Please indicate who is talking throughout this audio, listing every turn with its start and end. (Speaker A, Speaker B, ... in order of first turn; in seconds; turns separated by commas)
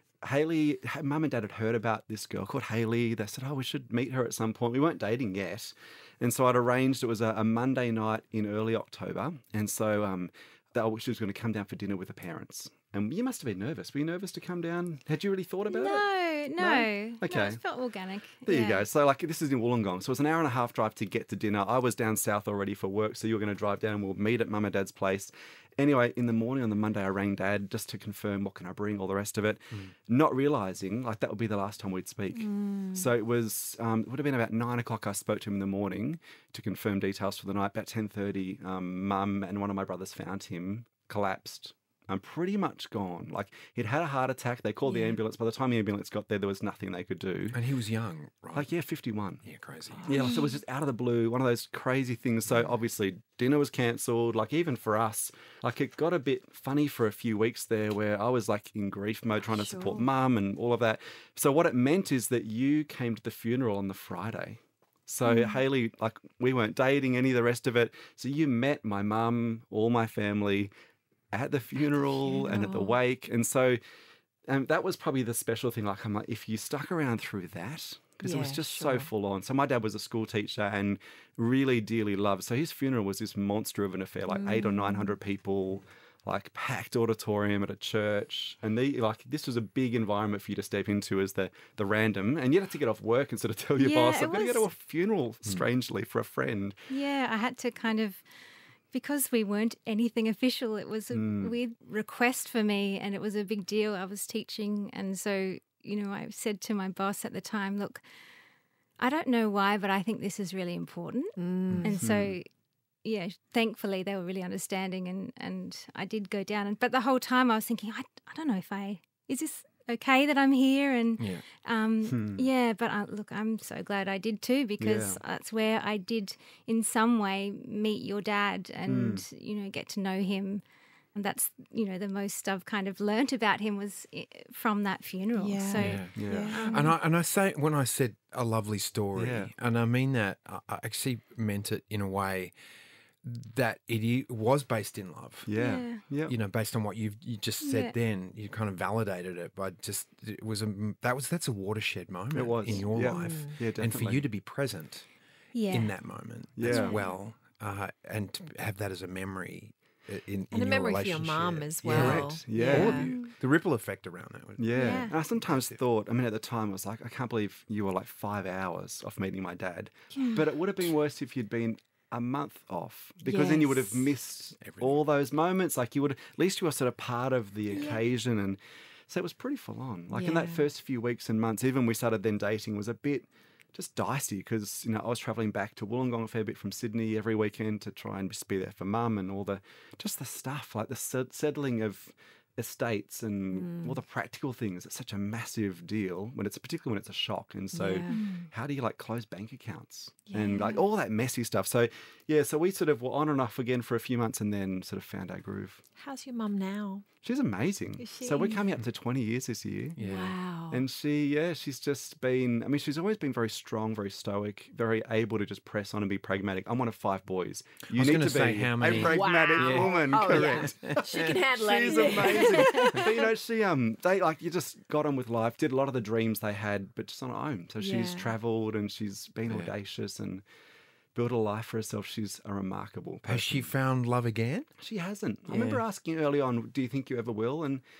Speaker A: 0.2-16.0, Speaker B: 15.7-18.9, Speaker A: 16.6-17.6, Speaker A: 18.4-47.6, Speaker C: 32.3-33.1, Speaker C: 44.9-45.2, Speaker D: 47.5-48.7, Speaker A: 48.5-49.4, Speaker D: 49.4-50.2, Speaker C: 49.9-50.5, Speaker A: 50.1-70.7, Speaker C: 59.4-60.1, Speaker C: 65.2-65.6, Speaker A: 71.3-73.8, Speaker C: 72.2-73.0, Speaker A: 74.5-96.8, Speaker C: 78.2-79.1, Speaker C: 84.3-85.1, Speaker B: 93.8-94.6, Speaker B: 96.9-98.2, Speaker B: 98.9-108.0, Speaker A: 101.1-101.5, Speaker B: 109.0-112.5, Speaker C: 111.4-112.0, Speaker A: 112.0-112.3, Speaker B: 113.0-130.6, Speaker A: 122.1-122.4, Speaker A: 124.8-125.2, Speaker A: 128.9-129.2, Speaker B: 131.1-136.9, Speaker C: 135.4-136.9, Speaker D: 135.8-142.5, Speaker A: 136.1-136.6, Speaker A: 139.2-139.5, Speaker D: 143.2-145.5, Speaker A: 145.5-146.3, Speaker B: 145.6-146.0, Speaker D: 146.3-155.0, Speaker B: 147.6-147.9, Speaker A: 152.3-154.2, Speaker C: 153.1-153.6, Speaker B: 155.5-155.9, Speaker D: 155.7-165.1, Speaker A: 156.6-157.0, Speaker B: 156.7-157.0, Speaker C: 160.5-163.1, Speaker A: 161.8-163.2, Speaker A: 164.6-205.8, Speaker B: 164.7-165.1, Speaker B: 170.1-170.4, Speaker C: 173.3-174.1, Speaker D: 174.6-175.0, Speaker C: 180.1-180.7, Speaker C: 193.5-194.0, Speaker C: 197.7-198.2, Speaker B: 198.1-198.5, Speaker C: 200.3-200.8, Speaker C: 206.0-207.0, Speaker A: 207.2-210.0, Speaker C: 208.0-208.6, Speaker D: 209.9-210.3, Speaker C: 210.0-210.8, Speaker A: 210.7-230.4, Speaker D: 217.9-221.4, Speaker C: 218.9-223.2, Speaker C: 227.8-228.3, Speaker A: 231.1-233.7, Speaker D: 233.3-234.7, Speaker A: 234.8-237.8, Speaker D: 235.5-235.8